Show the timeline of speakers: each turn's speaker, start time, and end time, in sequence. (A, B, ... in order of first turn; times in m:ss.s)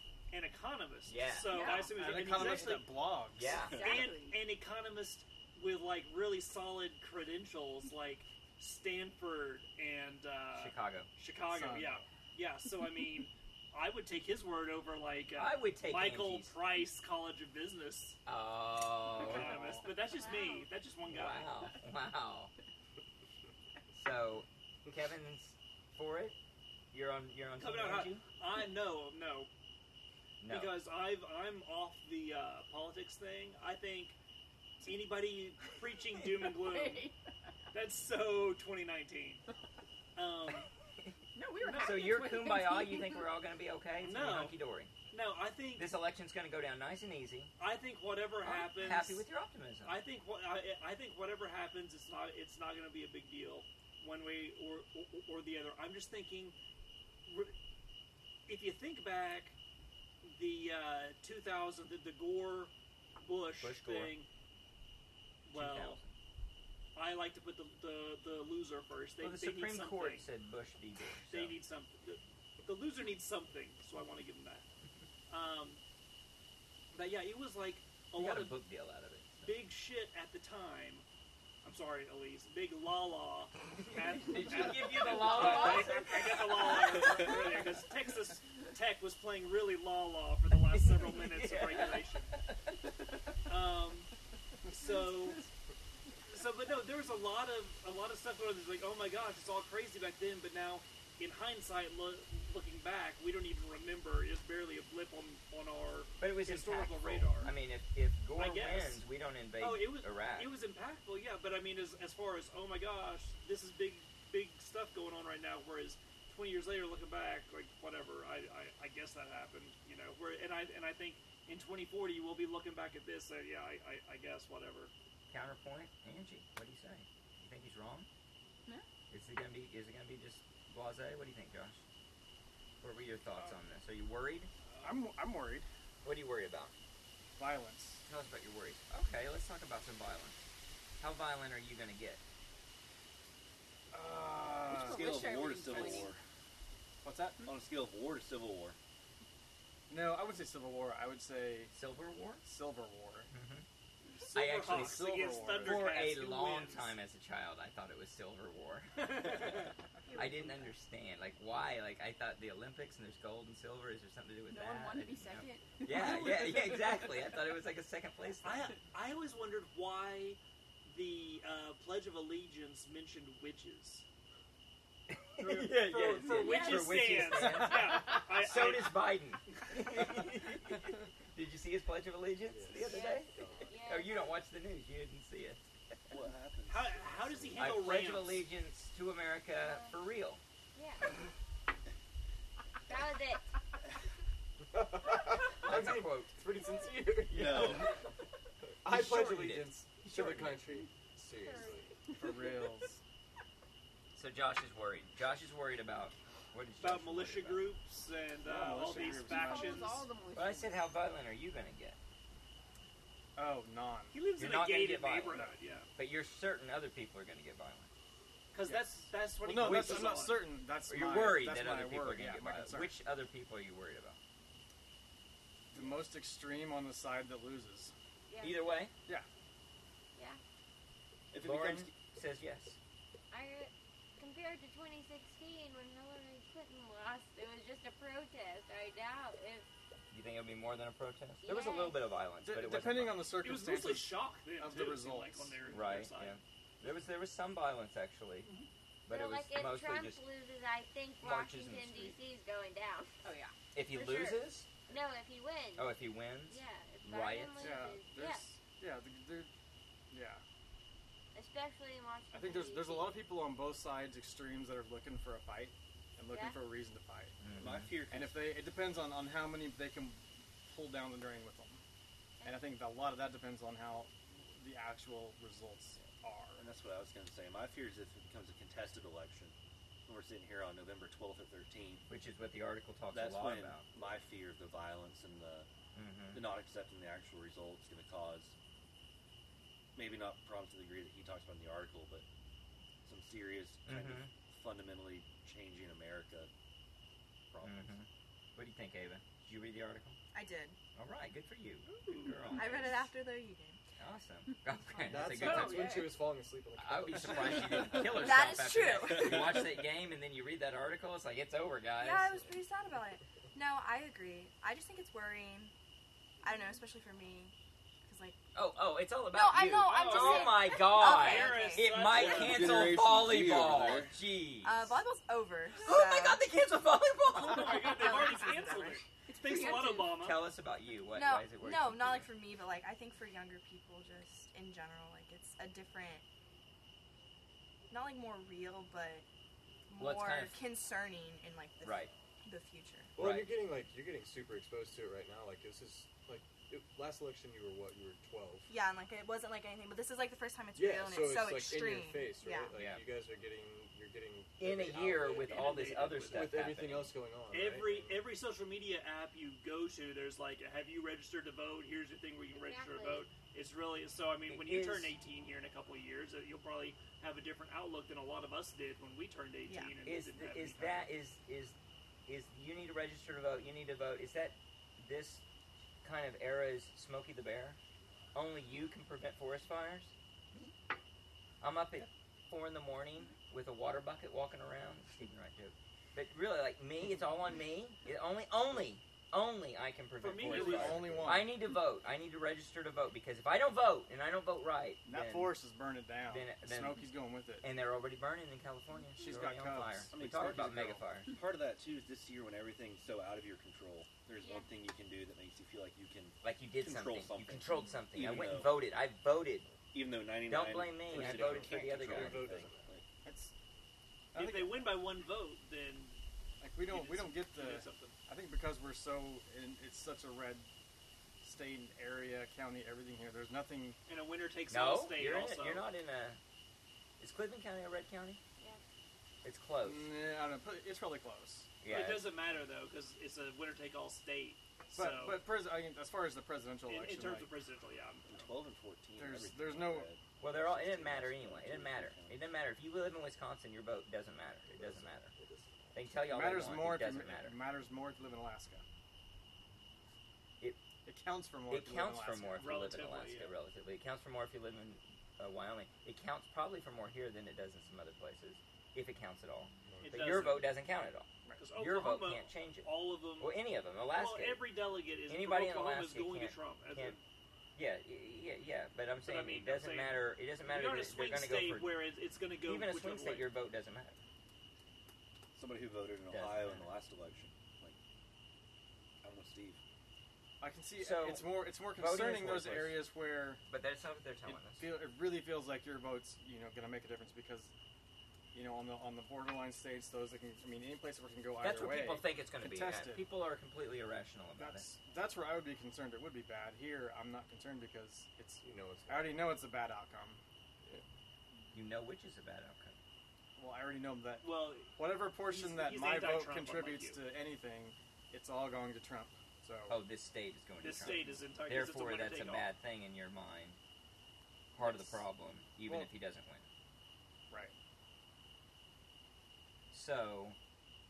0:00.3-0:03.0 A
0:01.1-0:01.7 B
0:01.5-0:02.7 C
0:01.9-0:03.6 D
0:03.3-0:03.8 B
0:03.4-0:04.4 C
0:03.7-0:18.2 A
0:10.5-0:11.1 B
0:11.5-0:12.0 D
0:15.4-0:16.5 B
0:18.3-0:19.6 B
0:19.2-0:21.5 A
0:19.6-0:20.7 C
0:21.1-0:22.5 B
0:23.9-0:26.4 B
0:26.9-0:28.2 B
0:27.6-0:29.5 A
0:30.4-0:30.8 B
0:30.5-0:34.2 A
0:34.8-0:37.1 A
0:36.6-0:37.2 C
0:37.7-0:39.4 A
0:40.2-0:40.7 A
0:41.4-0:43.3 C
0:41.6-0:42.2 A
0:41.8-0:44.9 B
0:44.0-0:44.6 A
0:45.1-0:45.9 A
0:45.8-0:47.5 B
0:47.6-0:49.2 A
0:48.4-0:50.0 B
0:49.8-0:56.6 A
0:57.3-0:57.5 A
0:58.5-0:59.6 A
1:00.2-1:04.3 A
1:03.6-1:04.2 B
1:05.5-1:06.0 A
1:05.5-1:06.1 B
1:07.0-1:10.3 A
1:09.2-1:11.6 B
1:11.3-1:14.7 A
1:15.3-1:15.8 A
1:16.9-1:18.6 A
1:18.2-1:19.6 B
1:19.4-1:21.0 A
1:21.6-1:32.3 A
1:24.1-1:27.2 B
1:25.2-1:26.2 C
1:30.7-1:32.7 B
1:33.5-1:34.1 A
1:34.7-1:35.5 A
1:36.3-1:47.5 A
1:46.2-1:50.5 B
1:48.4-1:49.0 A
1:49.6-2:04.9 A
2:05.3-2:08.1 B
2:09.1-2:11.8 B
2:12.8-2:14.5 B
2:14.8-2:15.7 D
2:16.0-2:16.7 B
2:17.4-2:18.0 D
2:18.1-2:20.5 B
2:21.0-2:22.2 B
2:23.9-2:25.2 D
2:24.7-2:26.1 C
2:24.7-2:26.2 E
2:25.8-2:26.1 D
2:27.0-2:27.4 D
2:27.4-2:28.8 E
2:29.9-2:31.7 D
2:31.7-2:32.4 B
2:32.4-2:33.3 D
2:33.3-2:33.6 B
2:34.0-2:37.0 A
2:34.3-2:35.1 B
2:34.6-2:36.0 D
2:35.6-2:48.7 B
2:39.0-2:39.7 A
2:40.1-2:40.6 F
2:44.5-2:47.3 C
2:48.4-2:54.0 A
2:55.1-3:06.0 B
2:55.4-2:59.1 A
2:56.3-2:57.2 G
3:02.5-3:03.8 H
3:02.8-3:04.3 G
3:06.1-3:07.9 E
3:06.7-3:08.5 A
3:07.6-3:10.4 B
3:09.6-3:10.0 G
3:10.8-3:11.0 G
3:12.9-3:13.5 G
3:14.7-3:18.1 H
3:15.6-3:16.4 B
3:17.3-3:17.9 E
3:17.3-3:17.9 B
3:18.8-3:22.0 H
3:18.9-3:20.7 B
3:22.2-3:23.0 D
3:24.2-3:27.7 B
3:26.8-3:30.0 A
3:28.4-3:29.9 D
3:29.0-3:30.8 C
3:30.3-3:32.0 B
3:33.4-3:34.2 D
3:34.1-3:35.9 A
3:34.4-3:37.9 B
3:38.5-3:40.4 A
3:39.4-3:43.0 D
3:39.6-3:40.3 B
3:40.9-3:44.2 B
3:45.7-3:47.9 D
3:48.3-3:48.8 G
3:48.4-3:48.9 B
3:51.3-3:51.9 E
3:51.4-3:52.8 B
3:53.3-3:59.7 G
4:00.1-4:03.3 B
4:01.4-4:02.0 G
4:02.4-4:05.7 D
4:03.4-4:06.4 A
4:05.7-4:08.5 B
4:09.1-4:10.2 B
4:09.1-4:13.2 G
4:11.2-4:12.2 B
4:13.2-4:13.5 C
4:13.7-4:14.7 B
4:13.9-4:15.9 G
4:15.8-4:17.8 B
4:16.5-4:18.4 G
4:17.6-4:19.5 D
4:20.1-4:20.4 D
4:21.3-4:23.1 G
4:22.3-4:27.4 D
4:26.3-4:26.6 G
4:27.4-4:27.9 B
4:27.6-4:28.6 E
4:28.1-4:31.8 D
4:32.4-4:36.6 D
4:36.6-4:39.6 E
4:40.1-4:42.1 E
4:42.1-4:43.9 B
4:43.1-4:45.7 E
4:46.0-4:46.5 B
4:46.3-4:48.6 E
4:50.0-4:52.2 E
4:53.0-4:56.5 E
4:53.9-4:54.3 B
4:57.5-4:58.0 E
4:57.6-5:00.2 B
5:00.3-5:00.8 F
5:01.0-5:03.0 B
5:01.9-5:02.8 A
5:02.6-5:03.8 F
5:04.0-5:06.2 B
5:05.0-5:08.0 H
5:05.4-5:06.2 C
5:06.8-5:12.5 B
5:08.1-5:09.7 F
5:12.0-5:15.7 F
5:16.4-5:17.5 F
5:18.0-5:18.4 F
5:18.6-5:25.0 B
5:19.3-5:22.1 F
5:19.8-5:22.8 A
5:22.1-5:24.2 E
5:24.6-5:26.5 F
5:25.8-5:28.0 B
5:27.4-5:30.4 A
5:27.7-5:29.0 F
5:29.3-5:30.2 C
5:30.2-5:32.3 B
5:31.2-5:36.2 F
5:37.9-5:39.2 F
5:39.9-5:43.1 F
5:40.0-5:40.6 B
5:41.8-5:42.1 B
5:43.2-5:48.7 H
5:43.2-5:43.5 B
5:48.7-5:52.7 F
5:50.8-5:58.3 H
5:52.7-5:53.0 B
5:54.6-5:57.1 B
5:55.0-5:56.5 A
5:57.5-6:11.1 A
6:02.5-6:03.3 G
6:04.5-6:05.2 B
6:09.7-6:10.0 F
6:10.0-6:11.8 B
6:12.3-6:15.4 B
6:16.0-6:17.8 B
6:18.4-6:20.7 B
6:21.6-6:35.6 B
6:30.2-6:31.3 A
6:30.4-6:31.5 D
6:35.1-6:37.7 D
6:36.3-6:37.1 B
6:37.6-6:41.3 B
6:39.2-6:41.0 D
6:40.1-6:48.8 E
6:44.4-6:44.7 G
6:46.4-6:49.7 B
6:49.9-6:53.0 E
6:50.4-6:52.5 B
6:51.1-6:53.0 H
6:53.2-6:53.5 D
6:54.3-6:55.0 D
6:54.4-6:56.2 A
6:56.6-7:00.7 D
6:56.9-6:58.2 A
7:01.4-7:04.0 D
7:04.1-7:05.9 A
7:04.7-7:06.4 B
7:07.2-7:08.4 B
7:09.4-7:10.1 B
7:09.8-7:11.7 D
7:11.8-7:12.3 B
7:11.9-7:15.4 A
7:14.9-7:17.5 D
7:16.9-7:18.5 A
7:18.3-7:22.4 E
7:19.2-7:20.1 D
7:20.4-7:25.3 B
7:24.7-7:26.0 H
7:25.9-7:27.6 B
7:26.3-7:28.8 D
7:31.1-7:32.7 D
7:31.7-7:44.6 B
7:32.6-7:33.6 A
7:39.9-7:40.4 H
7:40.0-7:40.7 A
7:41.6-7:47.2 A
7:45.3-7:47.2 B
7:47.8-7:51.9 B
7:49.2-7:53.5 A
7:52.6-7:54.2 B
7:55.6-7:58.0 E
7:56.3-7:56.9 B
7:59.2-7:59.8 E
8:00.6-8:03.6 D
8:01.0-8:03.0 B
8:03.7-8:04.9 B
8:04.5-8:07.7 D
8:08.5-8:13.2 D
8:11.6-8:14.9 B
8:14.6-8:20.4 D
8:18.6-8:19.6 H
8:21.7-8:23.0 B
8:23.6-8:30.0 D
8:24.4-8:27.2 A
8:29.9-8:33.8 B
8:30.8-8:32.7 A
8:34.8-8:36.6 B
8:34.8-8:35.2 D
8:39.9-8:40.6 B